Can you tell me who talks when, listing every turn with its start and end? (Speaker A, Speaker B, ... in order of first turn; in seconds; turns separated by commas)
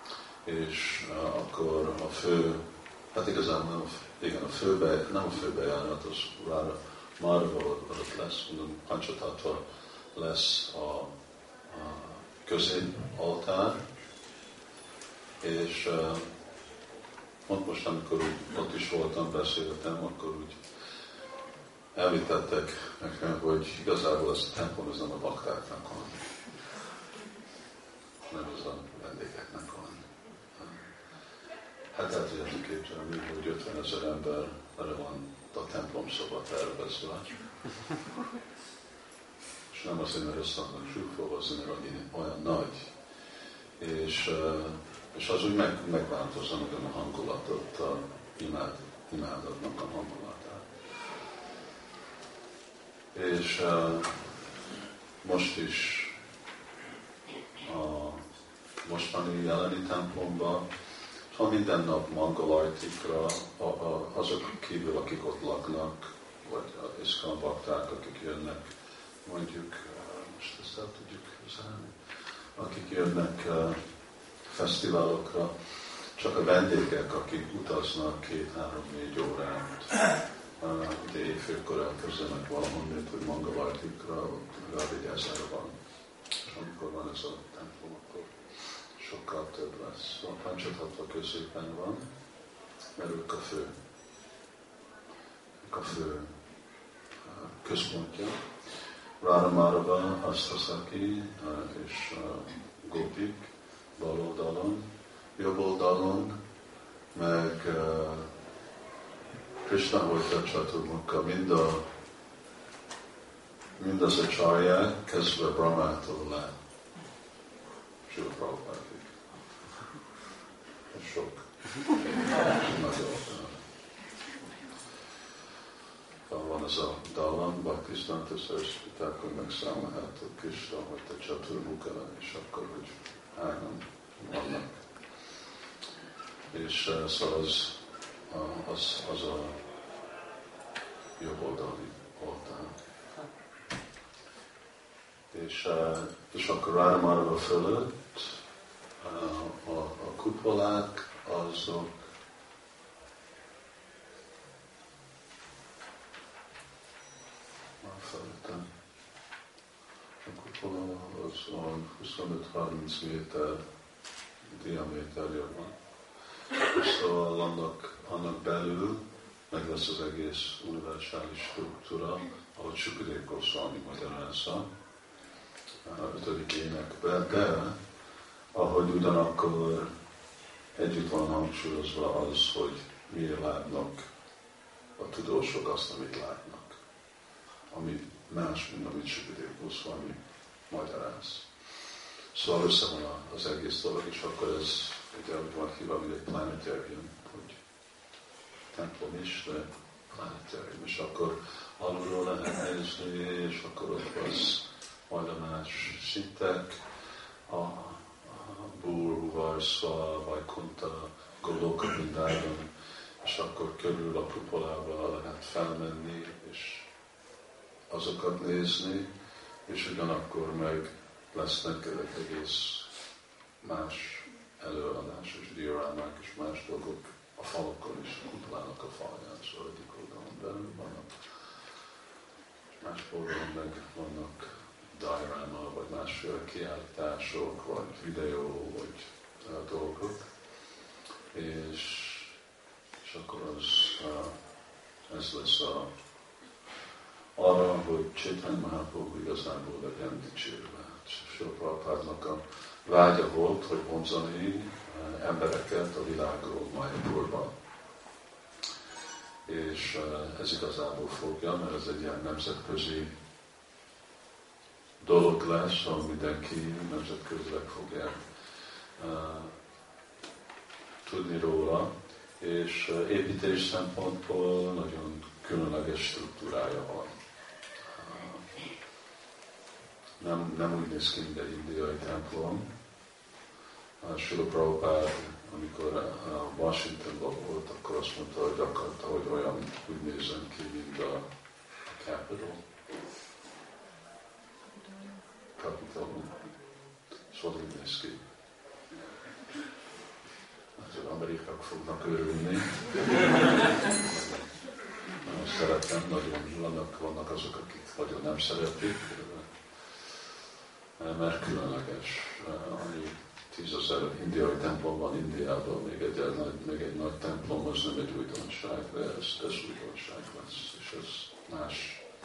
Speaker A: 0.4-13.8, Speaker A: 15.4-16.3, Speaker A: 17.5-20.6, Speaker A: 21.9-26.3, Speaker A: 28.3-30.9, Speaker A: 31.9-37.4, Speaker A: 39.7-42.9, Speaker A: 43.8-50.7, Speaker A: 53.1-54.3, Speaker A: 55.2-56.2, Speaker A: 57.6-58.3, Speaker A: 58.8-60.7, Speaker A: 61.3-73.8, Speaker A: 74.5-85.8, Speaker A: 86.4-92.1, Speaker A: 93.0-93.7, Speaker A: 95.6-96.4, Speaker A: 97.2-98.5, Speaker A: 99.2-106.4, Speaker A: 107.1-108.3, Speaker A: 109.6-111.8, Speaker A: 113.8-116.5, Speaker A: 118.1-119.2, Speaker A: 120.9-123.6, Speaker A: 126.3-134.8, Speaker A: 136.5-139.6, Speaker A: 141.2-142.8, Speaker A: 145.3-148.4, Speaker A: 149.0-152.0, Speaker A: 157.8-158.7, Speaker A: 160.2-163.6, Speaker A: 164.4-165.8, Speaker A: 166.6-174.7, Speaker A: 175.8-177.8, Speaker A: 178.5-179.9, Speaker A: 180.8-184.1, Speaker A: 185.0-186.8, Speaker A: 187.7-191.5, Speaker A: 192.3-197.6, Speaker A: 198.7-206.8, Speaker A: 207.5-212.7, Speaker A: 213.2-216.9, Speaker A: 217.9-219.1, Speaker A: 219.7-222.9, Speaker A: 223.6-231.7, Speaker A: 232.8-240.3, Speaker A: 241.3-242.4, Speaker A: 243.0-244.4, Speaker A: 245.1-245.9, Speaker A: 247.3-257.6, Speaker A: 259.5-263.1, Speaker A: 265.0-268.2, Speaker A: 269.0-269.6, Speaker A: 271.0-277.2, Speaker A: 277.8-278.5, Speaker A: 280.2-282.7, Speaker A: 284.0-291.3, Speaker A: 291.8-292.6, Speaker A: 295.6-296.5, Speaker A: 297.3-298.2, Speaker A: 300.8-304.5, Speaker A: 305.1-310.4, Speaker A: 311.0-322.1